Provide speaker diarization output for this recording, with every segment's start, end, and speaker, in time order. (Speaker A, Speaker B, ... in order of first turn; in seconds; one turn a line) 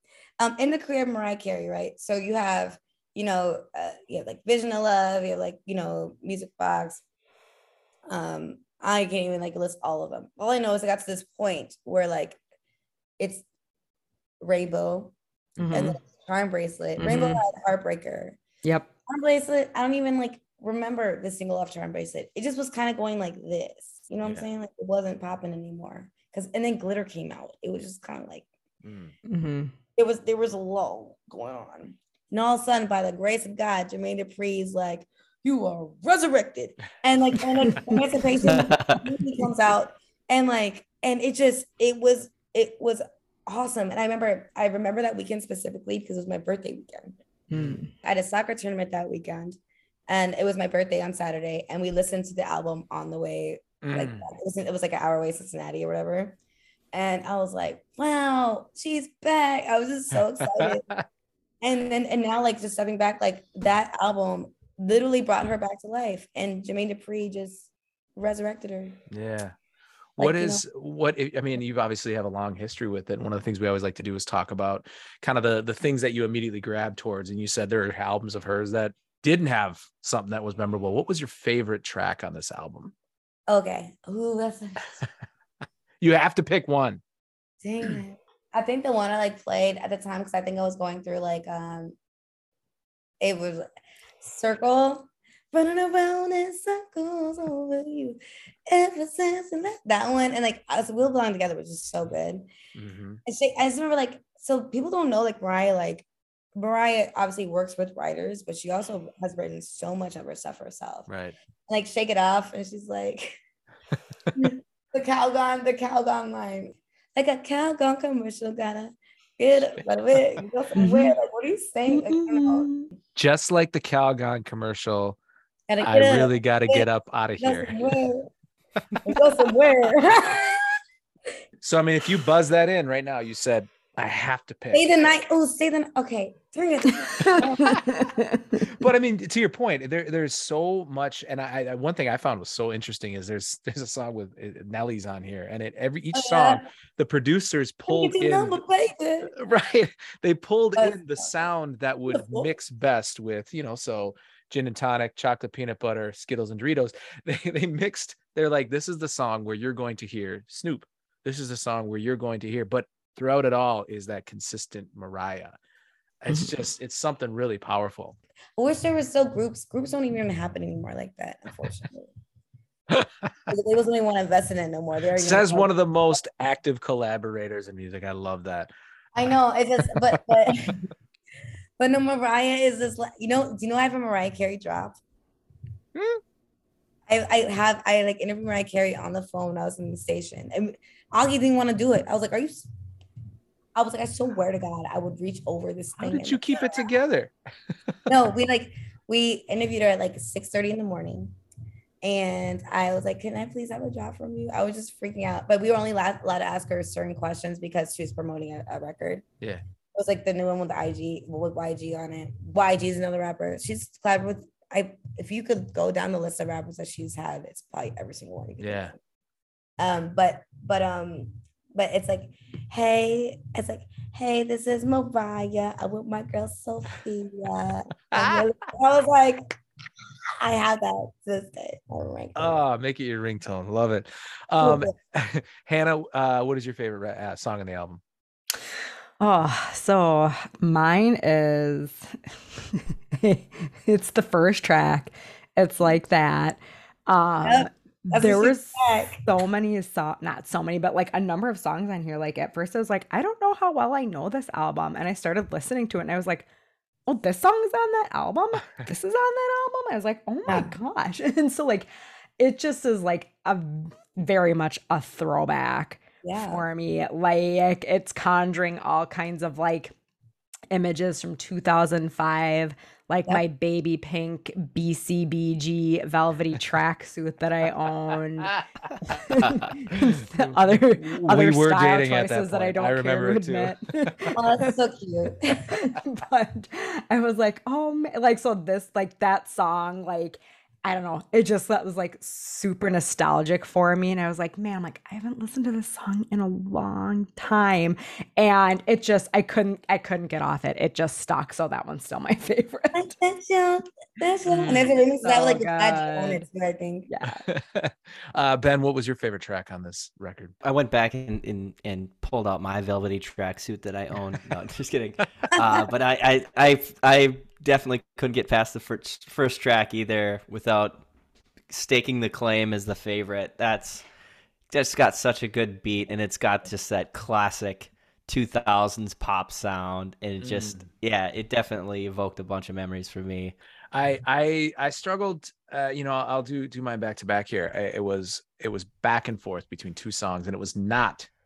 Speaker A: 0.4-7.0
Speaker A: 8.1-12.4
Speaker A: 13.2-13.4
Speaker A: 14.4-15.1
Speaker B: 15.6-16.0
Speaker A: 15.7-18.4
Speaker B: 17.0-17.4
Speaker A: 19.1-28.5
Speaker C: 28.8-29.1
Speaker B: 29.3-29.7
Speaker A: 29.9-47.2
Speaker D: 38.4-39.0
Speaker B: 47.5-47.9
Speaker C: 47.5-47.8
Speaker A: 48.0-56.4
Speaker C: 53.8-54.3
Speaker A: 56.9-60.9
Speaker C: 60.4-61.0
Speaker A: 61.6-69.0
Speaker C: 69.1-69.5
Speaker C: 70.2-82.9
Speaker A: 70.2-70.6
Speaker A: 83.5-85.0
Speaker C: 86.0-87.0
Speaker A: 87.6-92.0
Speaker A: 93.2-93.7
Speaker A: 94.2-102.5
Speaker C: 102.7-103.2
Speaker A: 103.2-111.1
Speaker C: 111.1-111.3
Speaker A: 111.7-113.4
Speaker A: 114.3-122.7
Speaker B: 120.8-121.1
Speaker B: 121.9-122.9
Speaker C: 123.2-125.2
Speaker A: 125.7-126.9
Speaker C: 125.8-127.8
Speaker A: 127.4-128.3
Speaker C: 128.9-129.2
Speaker A: 129.0-130.6
Speaker C: 131.6-134.9
Speaker A: 134.7-138.0
Speaker B: 137.2-138.6
Speaker C: 138.6-148.6
Speaker A: 146.1-146.6
Speaker A: 147.9-149.3
Speaker C: 149.3-165.6
Speaker A: 150.8-151.4
Speaker A: 152.1-152.5
Speaker C: 166.2-168.1
Speaker A: 168.6-172.1
Speaker A: 173.5-175.7
Speaker C: 175.2-178.7
Speaker A: 179.1-180.9
Speaker A: 181.8-185.0
Speaker C: 185.9-186.2
Speaker A: 187.1-192.7
Speaker A: 193.8-196.9
Speaker C: 196.0-197.3
Speaker A: 198.1-201.3
Speaker A: 202.0-209.2
Speaker A: 209.9-219.0
Speaker C: 218.6-218.9
Speaker A: 219.8-229.5
Speaker C: 228.1-228.4
Speaker A: 230.4-232.6
Speaker C: 232.4-238.0
Speaker A: 234.6-234.9
Speaker B: 239.2-256.4
Speaker A: 247.4-249.3
Speaker B: 257.1-261.9
Speaker A: 260.5-260.7
Speaker B: 262.4-269.9
Speaker A: 266.2-266.6
Speaker B: 270.7-284.4
Speaker C: 279.9-284.1
Speaker A: 284.3-285.8
Speaker B: 285.7-303.1
Speaker A: 302.9-307.1
Speaker C: 304.4-304.9
Speaker B: 304.6-306.5
Speaker B: 307.1-307.4
Speaker C: 307.4-310.6
Speaker D: 310.6-321.0
Speaker D: 321.7-324.1
Speaker D: 324.7-333.6
Speaker C: 330.4-330.8
Speaker C: 333.9-341.3